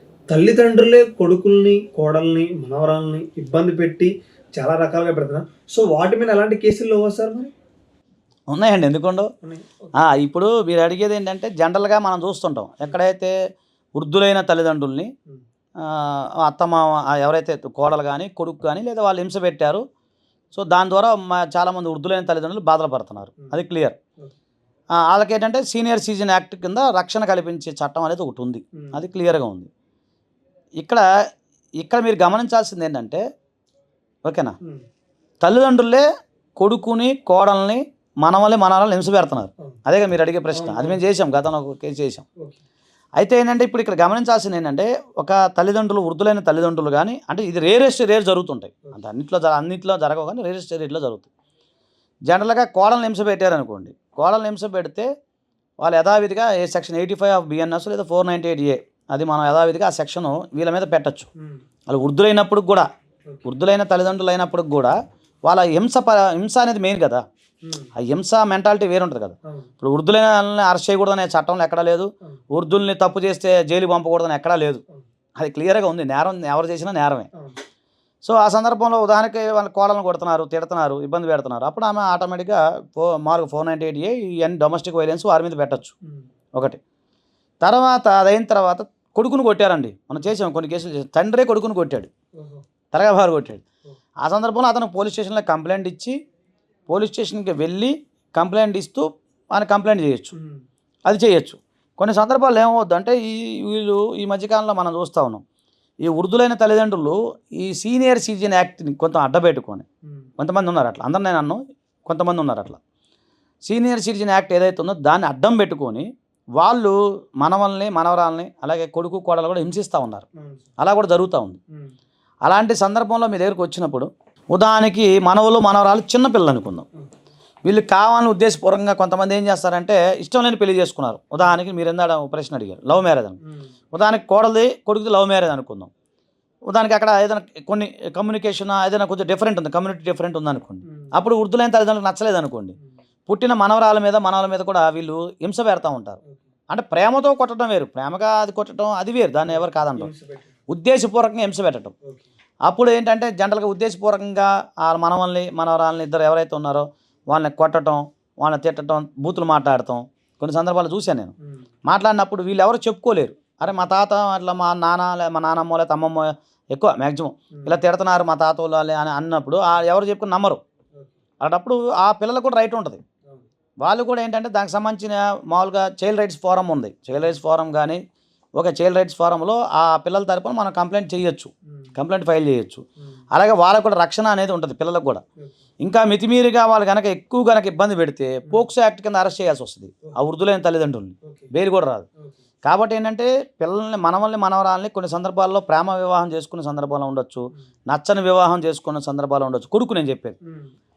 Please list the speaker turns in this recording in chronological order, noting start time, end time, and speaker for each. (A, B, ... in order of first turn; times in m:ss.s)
0:00.3-0:07.5 A
0:08.5-0:09.3 B
0:09.4-0:09.9 A
0:10.0-0:13.3 B
0:14.0-0:15.1 B
0:15.8-0:19.8 B
0:20.5-0:24.0 B
0:25.0-0:29.7 B
0:31.8-0:33.2 B
0:34.2-0:34.6 B
0:35.4-0:36.0 B
0:36.6-0:42.2 B
0:40.5-0:41.0 A
0:43.2-0:51.3 B
0:52.3-0:55.1 B
0:55.8-1:01.3 B
1:01.9-1:02.9 B
1:03.4-1:05.0 B
1:05.5-1:07.2 B
1:07.6-1:07.9 A
1:08.0-1:14.8 B
1:15.4-1:17.3 B
1:17.3-1:17.6 A
1:18.2-1:25.9 B
1:27.6-1:32.1 B
1:32.4-1:32.6 A
1:32.9-1:33.6 B
1:34.2-1:36.2 B
1:36.9-1:40.3 B
1:40.4-1:40.6 A
1:41.1-1:45.4 B
1:46.0-1:49.9 B
1:50.4-1:52.8 B
1:53.6-2:00.3 B
2:00.4-2:00.7 A
2:00.8-2:01.6 B
2:02.4-2:06.9 B
2:07.6-2:13.4 B
2:13.9-2:15.9 B
2:16.7-2:22.8 B
2:20.9-2:21.1 A
2:23.3-2:30.1 B
2:29.5-2:30.5 A
2:30.7-2:31.9 B
2:32.0-2:32.3 A
2:32.7-2:41.3 B
2:41.9-2:50.6 B
2:51.4-2:53.0 B
2:53.8-2:58.0 B
2:58.6-3:05.2 B
3:05.8-3:12.1 B
3:11.2-3:11.5 A
3:12.6-3:20.4 B
3:20.4-3:20.7 A